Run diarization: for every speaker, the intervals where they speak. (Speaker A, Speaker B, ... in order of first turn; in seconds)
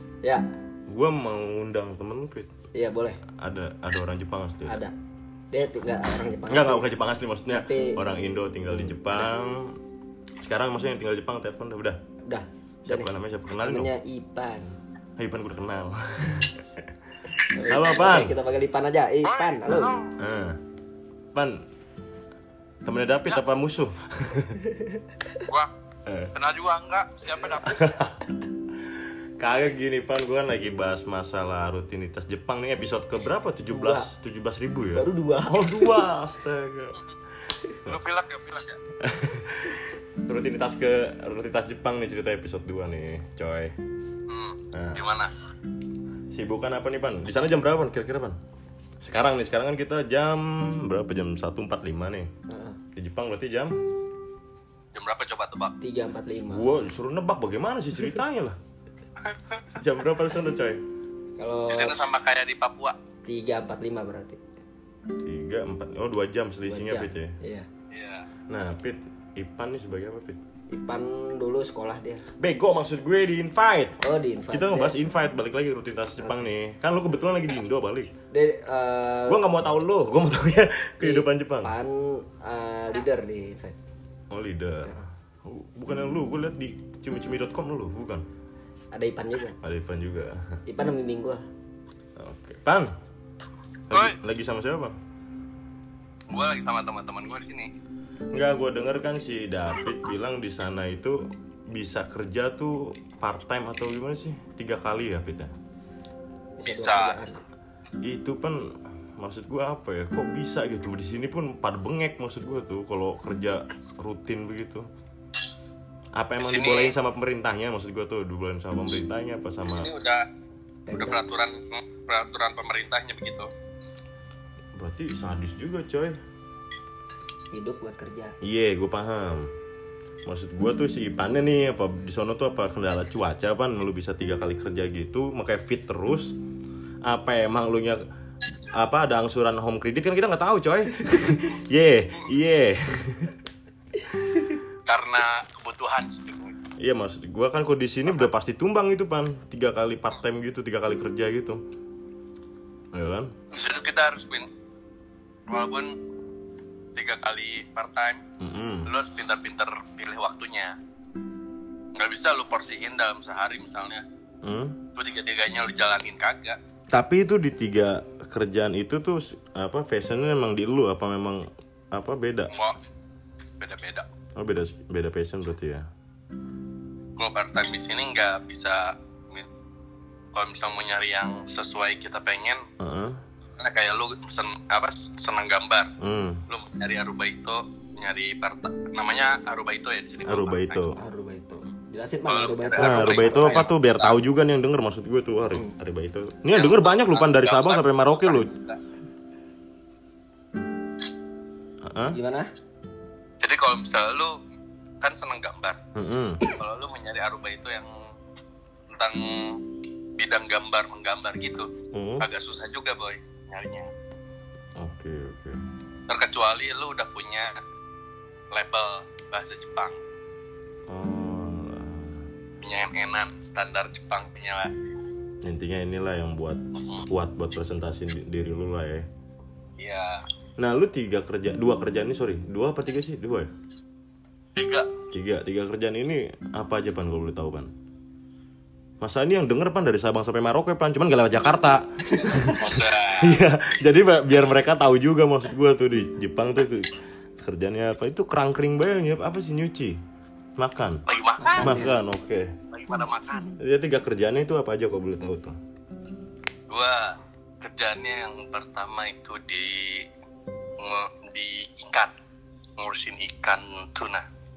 Speaker A: 0.9-2.5, 3.3-4.8, 6.5-9.8, 10.4-12.0, 12.8-13.9, 15.2-16.9, 17.7-18.3, 20.2-20.6, 21.3-21.6, 22.8-24.6, 26.1-26.3, 27.7-28.2, 28.9-37.0, 39.0-43.8, 44.7-45.1, 46.3-48.4, 49.0-52.3, 53.0-53.8, 56.5-58.6, 59.8-60.8, 65.2-67.3, 68.5-70.4, 72.4-74.0, 74.5-78.1, 79.3-81.7, 84.3-88.3, 89.6-90.6, 92.2-93.0, 93.9-95.0, 98.3-105.5, 108.0-114.9, 116.2-119.9, 124.8-126.2, 128.4-129.5, 130.3-136.4, 137.0-138.0, 138.7-143.4, 146.8-151.6, 152.9-153.3, 158.4-158.9, 164.4-164.8, 166.9-172.5, 174.4-175.9, 182.8-183.2, 186.0-186.4, 190.2-191.0, 192.8-198.5, 201.8-202.2, 205.9-206.4, 211.9-212.3, 214.8-215.6, 220.9-222.3, 225.4-229.1, 230.6-233.5, 235.1-237.7, 239.0-250.0, 250.6-251.0, 251.6-252.6, 253.6-255.6
Speaker B: 2.7-3.2, 4.7-4.9, 5.5-6.9, 7.5-8.0, 8.7-9.3, 12.3-14.8, 17.5-19.9, 24.7-25.0, 33.7-34.1, 34.9-36.1, 52.5-52.8, 55.8-56.7, 61.4-62.0, 63.2-64.4, 66.7-67.7, 70.7-72.2, 74.0-75.0, 78.3-79.4, 81.0-83.8, 88.9-89.6, 90.7-91.4, 106.6-107.4, 120.9-121.2, 127.5-128.3, 191.0-193.7, 202.1-202.5, 242.1-242.6, 251.4-252.0
Speaker C: 19.2-20.1, 26.4-27.9, 37.9-38.8, 44.3-45.3, 54.9-55.8, 59.3-59.6, 61.7-63.0, 67.9-68.3, 93.9-94.2, 96.3-97.7, 106.6-107.2, 116.4-117.0, 119.7-120.3, 121.0-123.5, 144.9-146.6, 153.5-154.5, 155.5-156.0, 156.9-158.2, 158.9-160.8, 162.0-164.0, 164.9-166.6, 172.5-172.8, 173.6-174.1, 177.2-179.5, 180.3-182.7, 183.6-185.9, 186.5-190.9, 192.3-194.2, 196.5-198.8, 203.4-204.4, 205.0-205.8, 206.5-207.9, 208.9-209.6, 210.2-211.7, 212.2-213.9, 216.1-217.6, 218.5-220.0, 222.6-224.7, 226.8-227.1, 229.8-230.3, 234.6-234.9, 242.6-243.4, 251.1-251.8, 252.7-253.6, 256.7-260.1, 260.8-262.1, 262.8-264.3